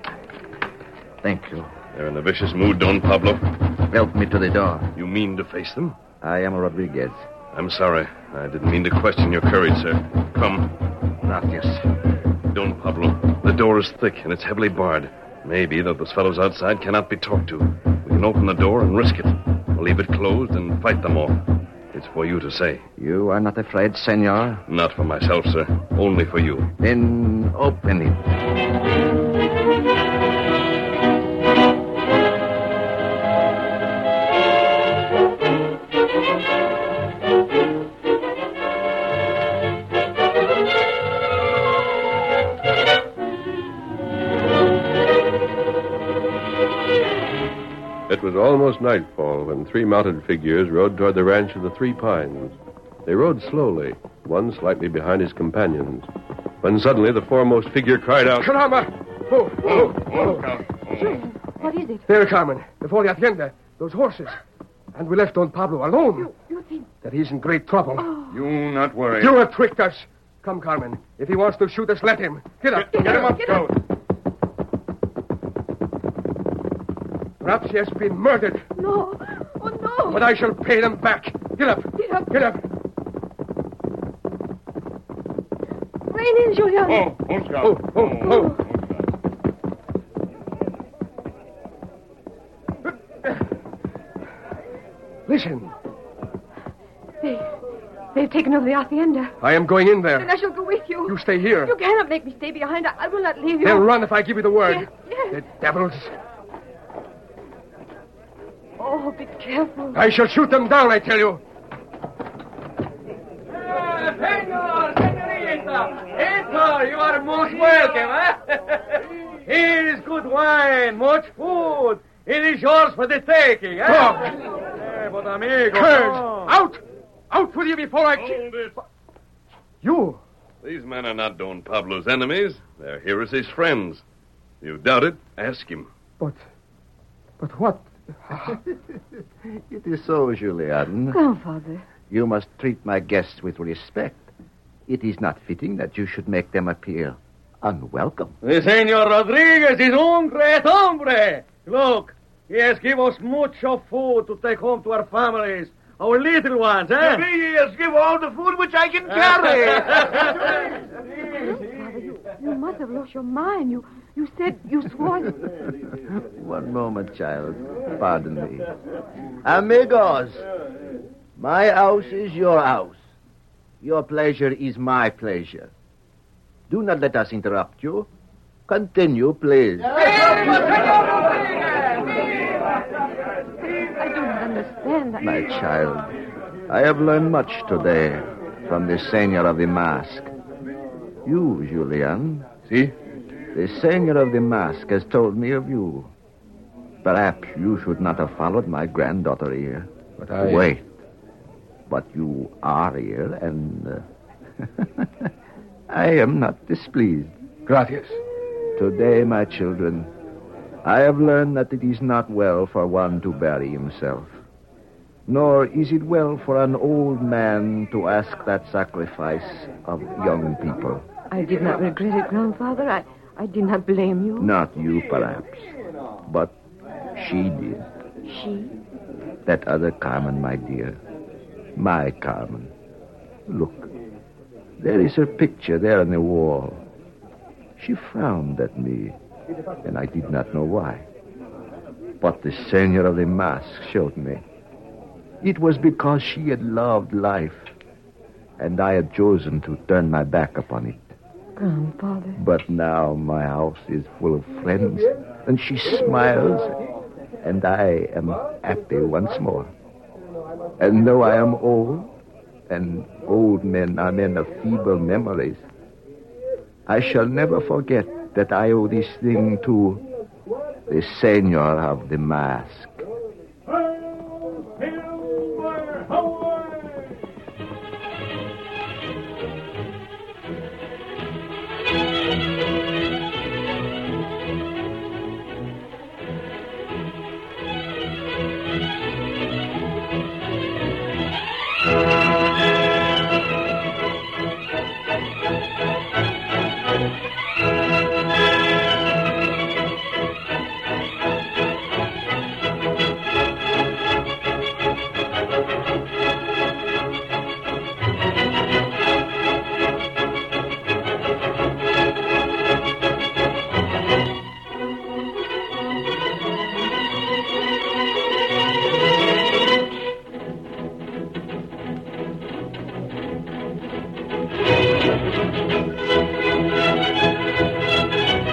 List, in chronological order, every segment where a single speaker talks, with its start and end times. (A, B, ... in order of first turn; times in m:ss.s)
0:01.2-0:01.7 A
0:01.9-0:03.4 B
0:03.9-0:04.9 A
0:04.9-0:06.0 B
0:06.2-0:07.2 A
0:07.5-0:10.7 B
0:11.2-0:11.8 A
0:12.5-0:21.4 B
0:21.9-0:22.8 B
0:23.0-0:24.6 A
0:24.7-0:26.7 B
0:26.8-0:28.2 A
0:48.1-0:56.1 C
0:56.6-0:58.5 C
0:58.4-1:00.4 D
0:59.6-1:01.2 E
1:00.9-1:02.1 F
1:02.1-1:04.4 D
1:04.9-1:06.3 D
1:06.1-1:06.9 F
1:07.0-1:08.1 D
1:08.0-1:08.4 F
1:08.3-1:09.4 E
1:09.2-1:13.6 D
1:12.8-1:13.8 E
1:12.9-1:13.7 F
1:17.4-1:18.6 D
1:18.7-1:20.3 F
1:20.1-1:22.6 D
1:22.0-1:22.4 F
1:26.1-1:27.1 F
1:26.8-1:29.0 E
1:27.6-1:28.6 D
1:28.2-1:28.6 F
1:35.3-1:35.7 D
1:37.2-1:37.5 F
1:38.1-1:39.4 F
1:39.4-1:40.3 D
1:40.2-1:43.9 F
1:41.1-1:41.7 D
1:43.6-1:46.1 D
1:44.6-1:45.4 F
1:48.8-1:50.0 F
1:49.9-1:51.4 D
1:53.6-2:06.5 G
2:03.9-2:04.3 D
2:05.7-2:08.5 D
2:08.2-2:08.7 B
2:09.8-2:10.2 D
2:10.6-2:14.0 B
2:14.6-2:15.9 B
2:17.4-2:18.6 D
2:18.4-2:21.2 A
2:21.1-2:21.8 F
2:22.1-2:24.3 A
2:24.9-2:28.3 A
2:28.4-2:37.8 G
2:38.1-2:40.0 A
2:39.2-2:40.3 G
2:41.3-2:45.4 F
2:46.1-2:48.7 A
2:49.4-2:50.4 A
2:51.4-2:53.0 A
2:53.8-2:55.7 A
2:56.7-2:58.1 A
2:58.7-3:00.3 A
3:03.6-3:05.5 F
3:05.2-3:06.1 A
3:06.7-3:10.3 A
3:11.2-3:12.5 A
3:12.7-3:12.9 D
3:13.5-3:16.1 A
3:17.0-3:20.9 A
3:20.2-3:20.7 D
3:21.9-3:24.0 A
3:24.6-3:25.3 A
3:25.9-3:27.3 A
3:27.6-3:28.2 D
3:28.8-3:30.1 A
3:30.8-3:34.3 A
3:35.3-3:41.0 A
3:41.3-3:44.5 F
3:44.4-3:45.7 A
3:46.2-3:46.5 A
3:47.1-3:47.9 A
3:48.2-3:48.8 F
3:49.4-3:51.0 A
3:51.8-3:52.7 A
3:53.5-3:53.9 A
3:54.8-3:56.8 A
3:57.8-3:59.2 A
3:59.8-4:01.0 A
4:02.2-4:04.4 A
4:05.4-4:07.7 A
4:08.6-4:11.0 A
4:11.6-4:12.4 F
4:12.4-4:16.8 A
4:17.4-4:19.7 A
4:20.8-4:22.1 A
4:22.7-4:25.6 A
4:26.9-4:30.0 A
4:30.9-4:33.0 A